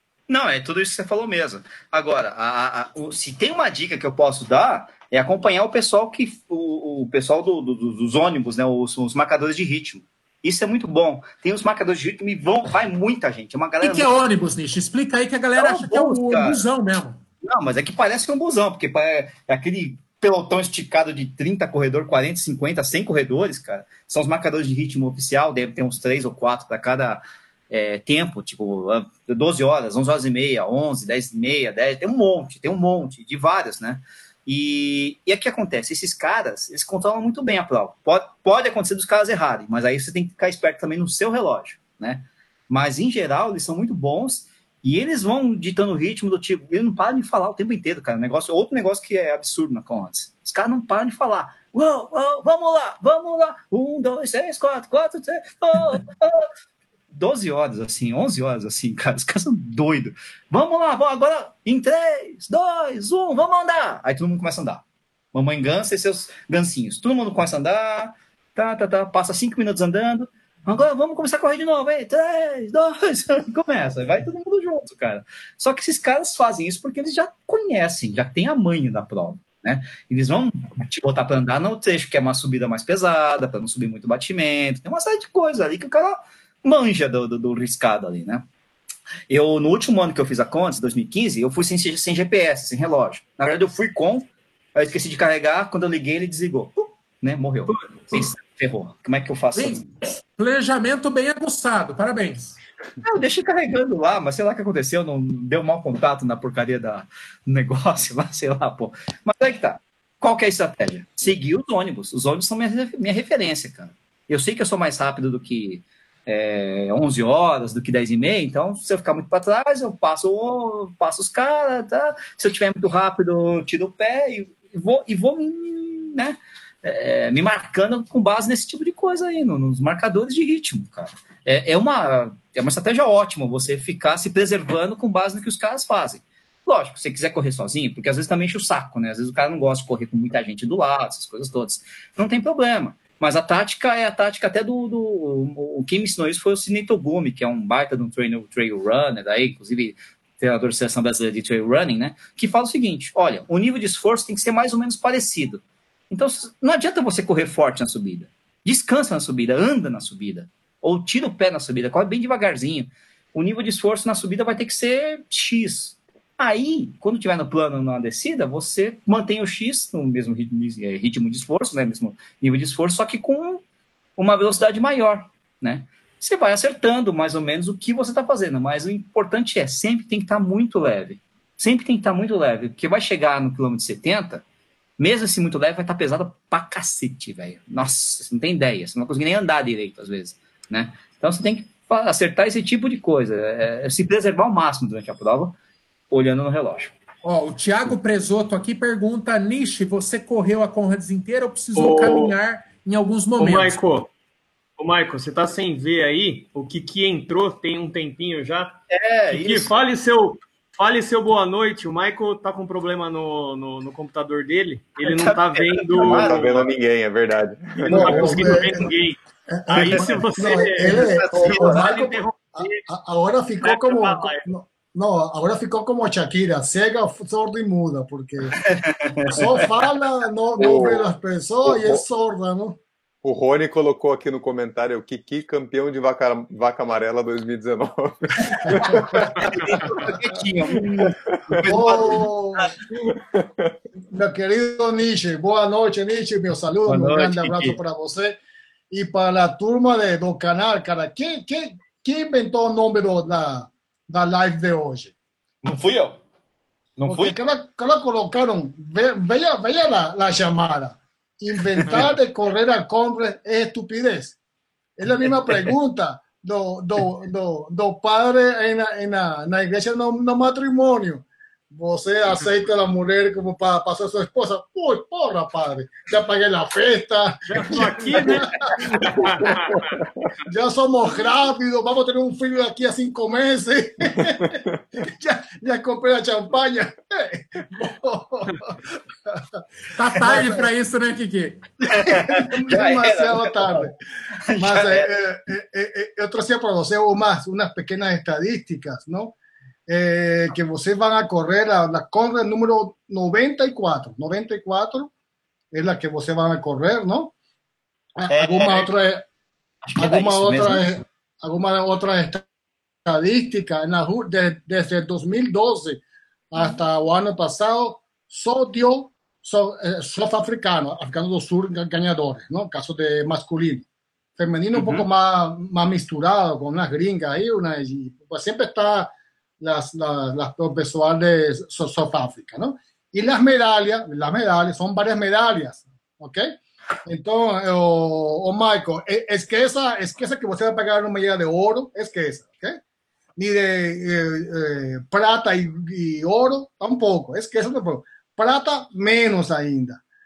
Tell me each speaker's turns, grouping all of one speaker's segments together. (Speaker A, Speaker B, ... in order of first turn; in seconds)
Speaker A: 0.3-14.1, 15.6-16.6, 17.4-56.5, 57.1-88.5, 89.3-99.9, 103.0-173.6, 174.2-184.4, 185.0-195.6, 196.1-196.9, 208.9-209.7, 215.0-216.7, 219.8-222.0, 228.7-229.7, 238.7-242.7, 255.6-256.2, 257.0-257.4, 291.9-293.7, 294.5-295.1, 308.3-308.9, 309.9-311.0, 324.7-325.1
Speaker B: 13.8-17.2, 99.5-102.6, 197.2-203.8, 289.9-291.6
Speaker C: 201.8-202.3, 203.4-204.1, 204.8-208.8, 209.3-216.7, 217.9-222.8, 223.6-224.5, 246.9-247.8, 277.5-280.0
Speaker D: 215.9-218.5, 230.6-231.1, 231.7-232.0, 233.2-239.8, 243.3-243.7
Speaker E: 217.9-218.9, 219.5-228.6, 229.3-232.8, 238.8-239.7, 241.7-243.2, 244.1-248.4, 248.9-255.1, 257.1-264.4, 265.0-279.5, 280.5-289.4, 290.2-290.6, 292.0-293.9, 294.6-305.1, 305.7-307.3, 308.2-309.3, 310.0-312.4, 313.1-342.8, 343.4-350.0